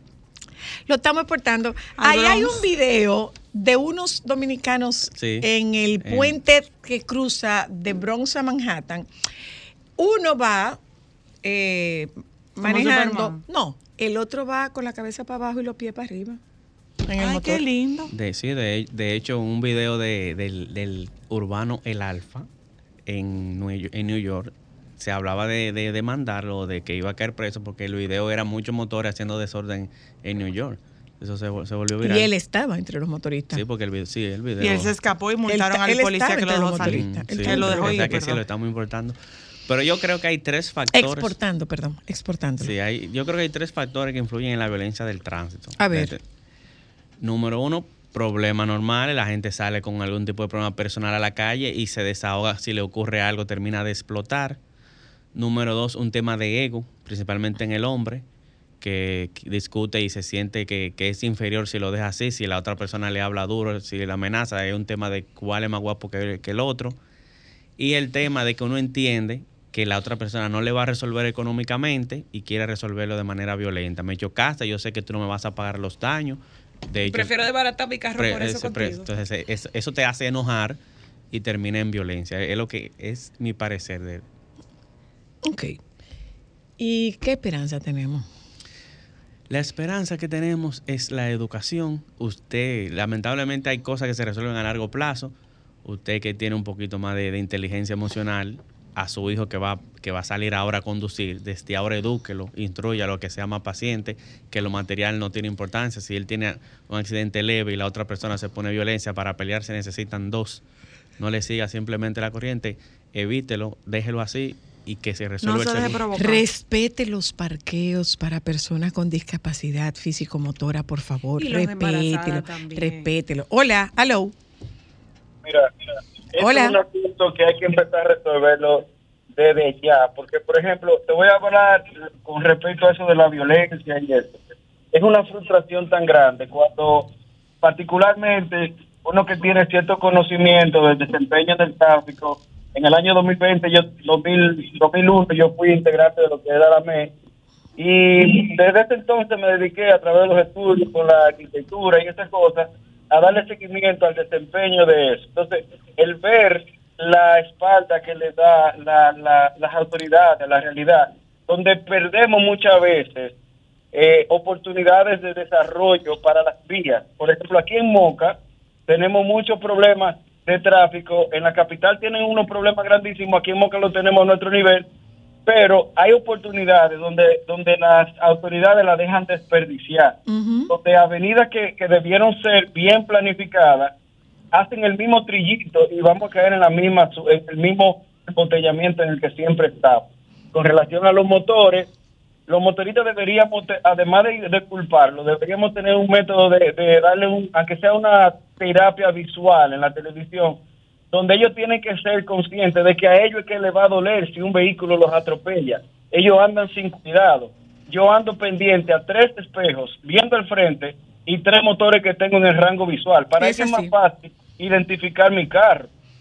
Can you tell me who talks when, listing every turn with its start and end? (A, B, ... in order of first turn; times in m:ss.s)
0:00.9-0:09.1 A
0:02.0-0:02.6 B
0:05.2-0:05.4 C
0:10.0-0:10.8 A
0:11.4-0:16.4 A
0:12.6-0:13.4 B
0:17.1-0:17.6 A
0:17.2-0:18.1 B
0:18.1-0:22.5 C
0:23.1-0:32.2 C
0:32.0-0:33.6 A
0:33.6-0:34.9 C
0:34.6-0:38.4 B
0:35.5-0:38.2 A
0:37.0-0:39.2 C
0:39.7-0:41.3 C
0:40.9-0:42.8 A
0:42.7-0:46.1 C
0:45.8-0:46.2 A
0:47.2-0:54.6 C
0:55.4-0:58.2 C
0:58.8-1:07.0 C
1:07.8-1:16.4 C
1:16.9-1:17.2 C
1:17.0-1:19.1 D
1:18.2-1:20.8 C
1:21.3-1:24.2 C
1:25.4-1:25.8 A
1:26.8-1:28.3 A
1:29.5-1:35.3 C
1:35.8-1:50.6 C
1:51.2-1:56.0 C
1:55.4-1:56.4 B
1:56.1-2:04.4 A
2:01.4-2:03.1 D
2:05.4-2:05.7 E
2:06.3-2:14.4 E
2:06.4-2:06.8 A
2:14.9-2:17.1 E
2:17.6-2:27.1 E
2:27.8-2:43.3 E
2:43.9-2:54.9 E
2:55.5-3:00.2 E
3:00.3-3:00.7 A
3:00.7-3:03.9 E
3:04.5-3:11.9 E
3:12.5-3:20.6 E
3:21.1-3:35.9 E
3:33.4-3:33.9 A